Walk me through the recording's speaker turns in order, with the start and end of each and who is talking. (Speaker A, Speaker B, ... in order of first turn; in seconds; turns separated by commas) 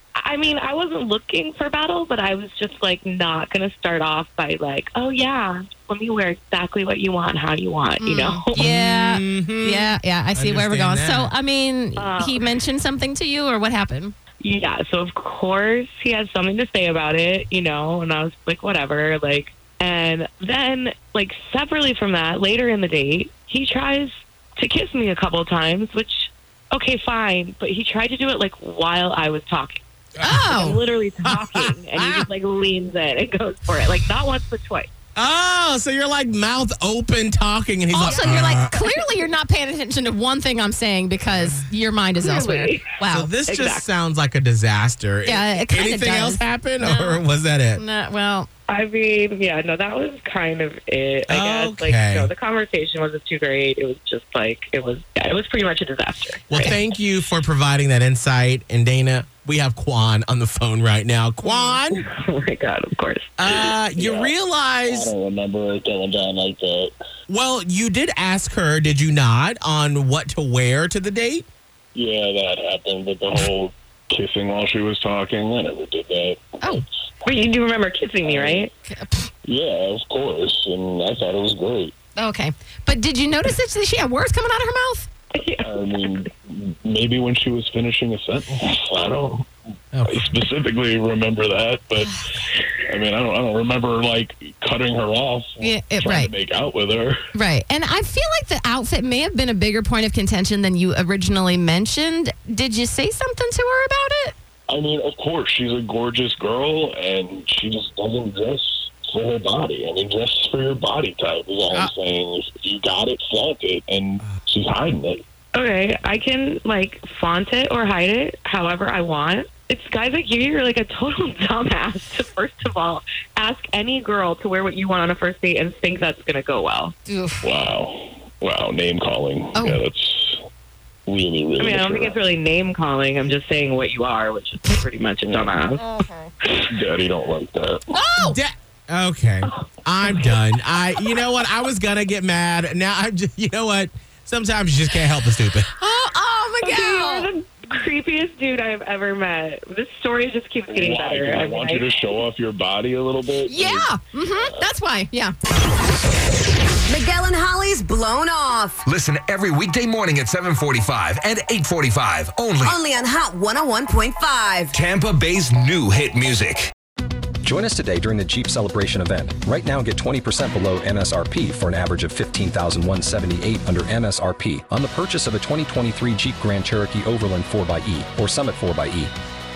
Speaker A: 0.2-8.7, Speaker B: 8.0-14.2, Speaker C: 8.7-11.3, Speaker A: 12.0-12.4, Speaker A: 14.4-34.9, Speaker C: 30.2-30.5, Speaker B: 30.2-30.8, Speaker C: 31.2-32.3, Speaker C: 35.2-38.8, Speaker B: 37.9-43.3, Speaker A: 38.1-38.3, Speaker A: 42.2-42.9, Speaker C: 43.1-47.8, Speaker A: 43.4-43.9, Speaker B: 45.2-47.2, Speaker B: 47.8-48.5, Speaker A: 48.7-56.9, Speaker C: 51.3-52.3, Speaker C: 56.5-62.0, Speaker A: 61.5-63.7, Speaker C: 63.4-65.1, Speaker D: 64.0-64.3, Speaker D: 64.9-66.9, Speaker C: 67.3-71.5, Speaker D: 71.9-76.8, Speaker A: 77.2-78.7, Speaker D: 78.3-78.7, Speaker B: 78.9-79.3, Speaker D: 79.5-81.9, Speaker B: 82.2-85.1, Speaker A: 85.3-86.2, Speaker D: 85.6-89.5, Speaker C: 89.9-90.4, Speaker D: 90.3-97.2, Speaker B: 95.6-96.3, Speaker B: 97.3-104.3, Speaker D: 104.7-115.2, Speaker A: 115.6-127.0, Speaker B: 127.1-127.4, Speaker D: 127.4-130.4, Speaker B: 129.6-129.8, Speaker D: 131.1-132.2, Speaker A: 131.6-135.8, Speaker D: 135.3-135.5, Speaker B: 135.8-136.3, Speaker D: 136.7-137.9, Speaker B: 137.9-138.4, Speaker C: 138.2-145.7, Speaker A: 139.6-140.4, Speaker B: 145.8-147.3, Speaker A: 146.6-152.2, Speaker D: 150.7-154.7, Speaker B: 153.5-155.3, Speaker E: 156.9-158.8, Speaker F: 158.8-162.8, Speaker E: 162.7-164.8, Speaker F: 164.7-166.7, Speaker G: 167.4-179.1